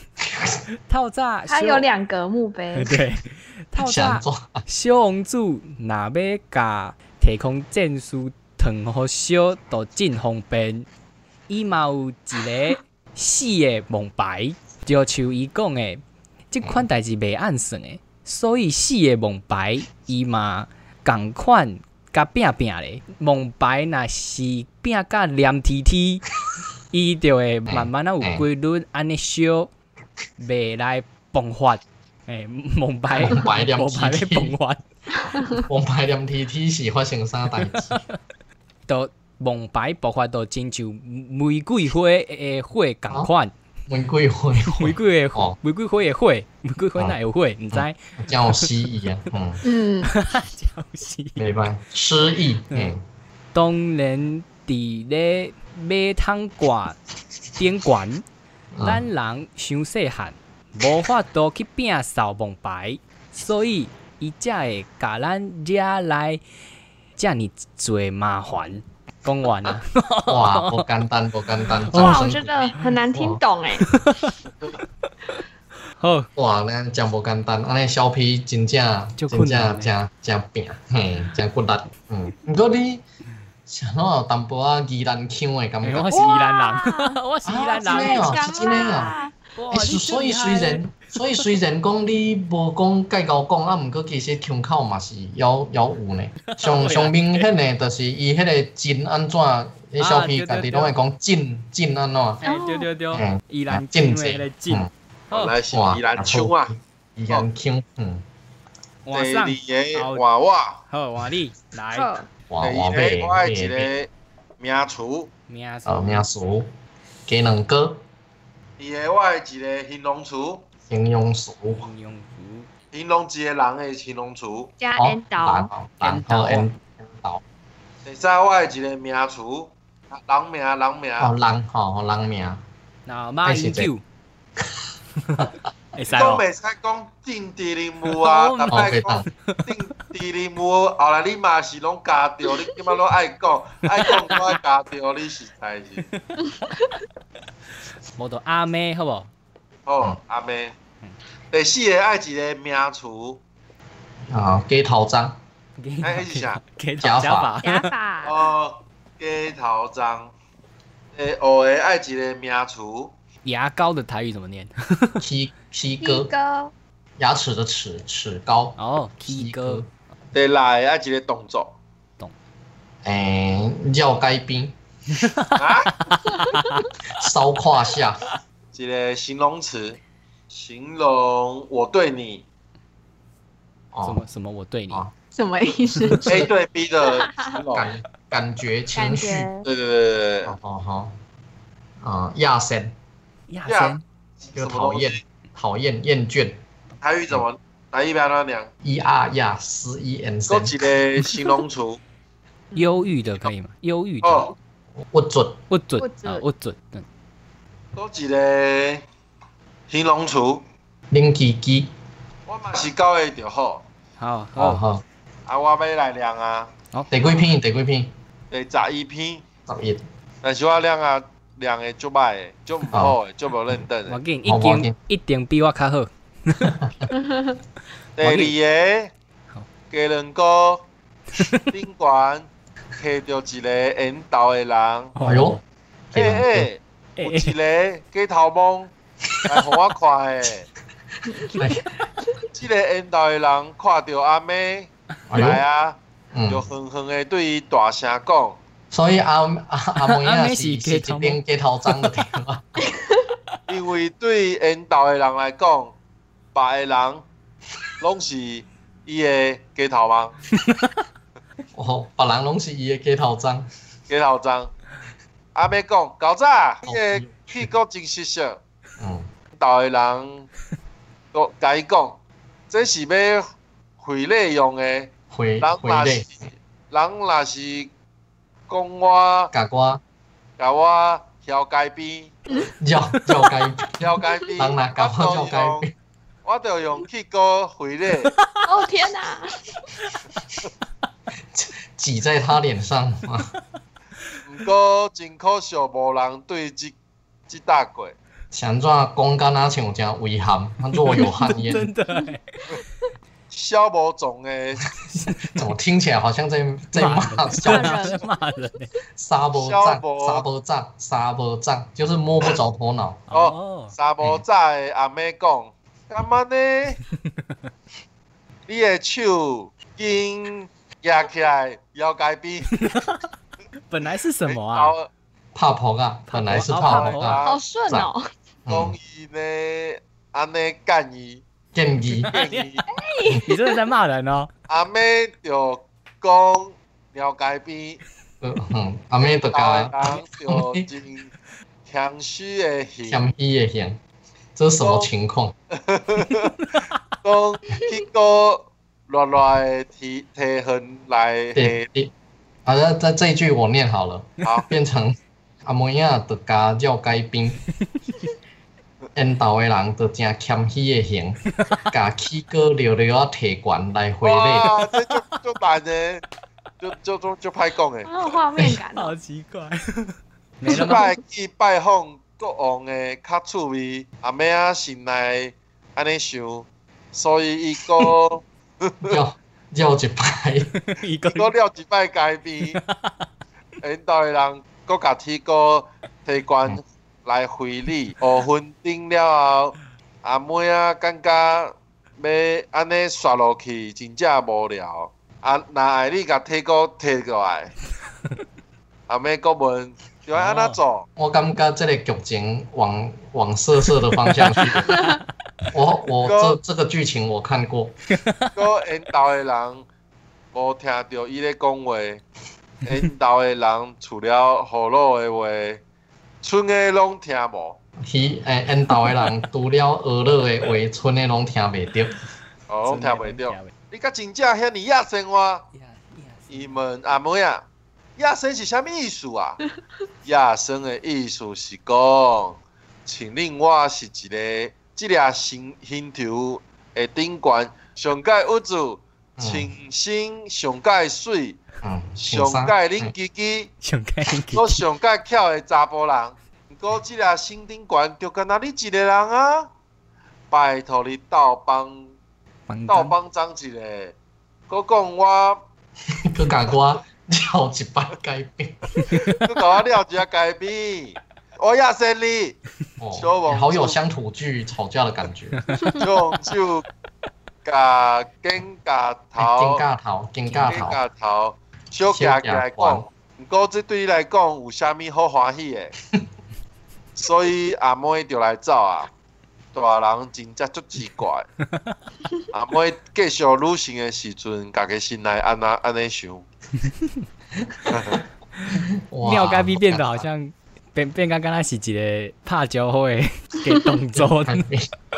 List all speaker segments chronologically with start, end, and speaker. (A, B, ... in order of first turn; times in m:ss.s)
0:00.8-0:01.9 A
0:01.5-0:03.0 B
0:02.7-0:10.9 A
0:03.8-0:04.6 C
0:11.5-0:26.2 A
0:26.9-0:29.7 A
0:27.7-0:28.4 C
0:30.4-0:34.8 A
0:33.1-0:34.6 C
0:35.5-0:38.0 C
0:37.8-0:38.2 A
0:38.9-0:43.5 A
0:43.9-0:45.6 C
0:44.6-0:48.7 A
0:47.7-0:49.6 C
0:49.6-0:50.1 B
0:50.0-0:51.5 A
0:51.4-0:53.0 C
0:53.5-0:57.0 A
0:57.6-0:58.2 A
0:58.7-0:59.0 C
0:58.8-1:06.4 A
1:07.2-1:10.9 A
1:10.3-1:13.4 C
1:11.7-1:12.3 A
1:11.9-1:13.9 B
1:13.8-1:14.4 A
1:16.0-1:16.3 A
1:16.4-1:23.0 C
1:19.2-1:19.9 A
1:23.7-1:26.2 C
1:25.8-1:31.4 A
1:26.1-1:27.2 B
1:27.4-1:29.1 C
1:27.8-1:29.3 B
1:29.7-1:42.4 C
1:36.5-1:37.5 A
1:40.0-1:40.9 A
1:42.4-1:45.6 A
1:42.4-1:42.9 B
1:43.1-1:44.9 C
1:45.3-1:46.7 D
1:45.7-1:48.2 C
1:49.0-1:50.2 A
1:49.1-1:50.8 D
1:50.9-1:52.1 A
1:51.9-1:52.3 B
1:52.5-1:53.9 C
1:52.6-1:54.1 D
1:54.6-1:55.3 D
1:55.5-1:56.2 A
1:55.8-1:56.7 C
1:57.3-1:58.0 C
1:58.8-2:00.6 D
2:00.9-2:01.9 C
2:01.8-2:02.7 A
2:02.9-2:04.7 D
2:04.8-2:05.7 B
2:05.0-2:07.4 C
2:06.0-2:06.7 A
2:08.0-2:11.3 D
2:11.2-2:12.6 C
2:13.0-2:14.0 A
2:13.4-2:13.9 C
2:15.2-2:16.4 A
2:16.1-2:26.1 D
2:18.1-2:19.7 A
2:18.7-2:19.2 C
2:24.0-2:24.6 A
2:26.1-2:26.6 A
2:28.2-2:29.3 A
2:29.8-2:30.8 D
2:31.5-2:33.4 D
2:34.3-2:35.4 C
2:35.8-2:37.9 A
2:36.0-2:36.6 D
2:37.0-2:37.6 C
2:37.6-2:38.5 B
2:38.2-2:40.3 D
2:41.1-2:43.1 D
2:43.4-2:45.2 A
2:45.2-2:46.3 C
2:46.0-2:46.7 B
2:47.2-2:49.9 C
2:48.8-2:49.8 A
2:50.3-2:51.8 D
2:53.0-2:54.8 C
2:55.1-2:56.9 A
2:55.5-2:56.0 D
2:56.2-2:56.8 B
2:57.1-2:58.3 C
2:58.7-3:00.0 D
3:00.5-3:02.4 D
3:03.9-3:04.2 C
3:04.0-3:05.0 A
3:05.3-3:06.4 B
3:06.2-3:07.9 D
3:07.0-3:07.5 B
3:07.7-3:09.5 C
3:08.9-3:09.6 B
3:09.6-3:10.5 D
3:10.4-3:11.2 C
3:12.0-3:12.9 C
3:13.5-3:14.0 A
3:13.6-3:15.2 D
3:14.5-3:16.6 C
3:17.0-3:18.7 D
3:18.8-3:20.8 C
3:20.5-3:22.0 D
3:22.7-3:24.5 A
3:24.2-3:24.5 D
3:25.1-3:25.6 C
3:25.7-3:27.0 A
3:26.0-3:26.4 B
3:27.9-3:29.0 D
3:29.9-3:30.6 D
3:31.1-3:31.9 C
3:32.5-3:33.8 D
3:34.2-3:34.8 A
3:34.6-3:35.0 C
3:35.4-3:36.7 D
3:37.1-3:38.1 C
3:38.5-3:39.4 D
3:39.7-3:40.0 C
3:40.4-3:44.2 D
3:44.1-3:46.7 A
3:44.4-3:44.9 C
3:46.6-3:47.1 C
3:47.2-3:47.5 B
3:48.2-3:49.1 D
3:48.2-3:48.5 A
3:49.9-3:50.8 D
3:51.3-3:51.7 A
3:51.7-3:55.2 D
3:55.1-3:55.6 A
3:55.2-3:55.6 C
3:56.1-3:56.7 C
3:56.1-3:58.9 D
3:57.2-3:57.5 A
3:59.4-4:00.7 D
4:01.3-4:01.6 B
4:01.4-4:01.9 C
4:02.5-4:08.6 D
4:05.3-4:05.6 C
4:06.3-4:06.6 C
4:08.9-4:12.7 C
4:10.0-4:12.1 A
4:13.7-4:16.0 D
4:16.5-4:17.2 D
4:18.0-4:20.4 D
4:20.5-4:20.9 A
4:21.7-4:23.7 C
4:24.1-4:24.7 D
4:25.5-4:28.6 D
4:26.8-4:27.7 C
4:29.0-4:29.3 C
4:29.6-4:30.5 D
4:31.3-4:32.2 D
4:32.7-4:33.5 D
4:34.0-4:37.9 D
4:35.3-4:36.3 C
4:38.7-4:39.5 D
4:39.5-4:40.0 C
4:40.6-4:42.4 D
4:42.8-4:44.0 C
4:44.0-4:45.8 D
4:44.6-4:45.9 C
4:46.4-4:48.4 D
4:48.4-4:48.6 A
4:48.6-4:49.8 B
4:51.5-4:53.5 C
4:54.4-4:57.0 D
4:57.5-4:58.2 D
4:58.5-5:01.9 C
5:01.0-5:02.4 A
5:03.5-5:04.8 D
5:05.2-5:05.6 A
5:05.4-5:08.1 C
5:06.9-5:08.9 A
5:07.6-5:08.4 B
5:09.2-5:13.2 C
5:09.5-5:10.4 D
5:13.3-5:13.9 A
5:13.3-5:17.0 D
5:17.2-5:17.7 A
5:18.7-5:22.8 D
5:22.8-5:23.3 A
5:23.9-5:24.9 A
5:24.4-5:25.1 D
5:25.5-5:28.1 C
5:26.3-5:27.4 A
5:26.8-5:27.6 D
5:27.4-5:28.2 B
5:28.6-5:29.0 C
5:28.7-5:31.4 D
5:31.7-5:32.3 C
5:32.1-5:32.8 D
5:32.3-5:32.8 A
5:32.9-5:33.8 B
5:33.4-5:34.5 A
5:34.7-5:38.0 D
5:38.4-5:40.9 C
5:39.2-5:41.3 D
5:41.8-5:43.2 D
5:43.1-5:44.0 C
5:44.6-5:45.5 C
5:44.8-5:45.1 D
5:45.7-5:46.7 D
5:47.2-5:51.8 D
5:51.5-5:52.1 C
5:52.6-5:57.6 C
5:54.4-5:54.7 D
5:59.1-6:04.7 C
6:04.2-6:06.2 D
6:06.8-6:08.1 D
6:08.0-6:09.1 B
6:08.9-6:11.0 A
6:10.7-6:19.2 D
6:10.7-6:11.1 B
6:19.0-6:20.7 C
6:20.8-6:21.5 A
6:21.3-6:22.8 D
6:22.6-6:23.3 A
6:23.8-6:37.7 D
6:39.1-6:41.1 D
6:40.3-6:40.8 A
6:41.2-6:45.0 C
6:44.2-6:45.1 A
6:44.9-6:45.2 B
6:45.7-6:47.9 C
6:46.2-6:46.6 D
6:48.1-6:48.5 A
6:48.5-6:49.8 D
6:50.5-6:52.2 D
6:52.8-6:55.8 D
6:56.4-6:57.8 D
6:58.0-7:02.2 C
7:02.7-7:05.6 D
7:02.8-7:03.7 A
7:05.7-7:06.8 A
7:06.5-7:07.6 D
7:08.2-7:09.6 D
7:10.2-7:21.6 D
7:19.4-7:19.7 C
7:21.8-7:23.1 C
7:22.2-7:23.7 D
7:23.8-7:24.8 A
7:24.5-7:29.7 D
7:30.5-7:32.1 D
7:32.7-7:33.1 A
7:32.9-7:34.1 D
7:34.7-7:35.6 D
7:36.1-7:39.0 C
7:39.1-7:39.4 A
7:39.4-7:42.6 D
7:43.0-7:45.6 C
7:43.2-7:44.0 D
7:45.6-7:46.0 A
7:45.9-7:46.8 D
7:47.6-7:49.8 D
7:49.4-7:51.0 C
7:50.5-7:50.8 A
7:50.6-7:55.9 D
7:52.1-7:53.1 C
7:57.2-7:59.1 D
7:59.7-8:01.5 D
8:01.7-8:02.0 A
8:02.5-8:06.4 D
8:07.6-8:08.0 C
8:07.9-8:08.2 D
8:08.7-8:14.7 A
8:09.1-8:10.3 C
8:14.2-8:14.9 C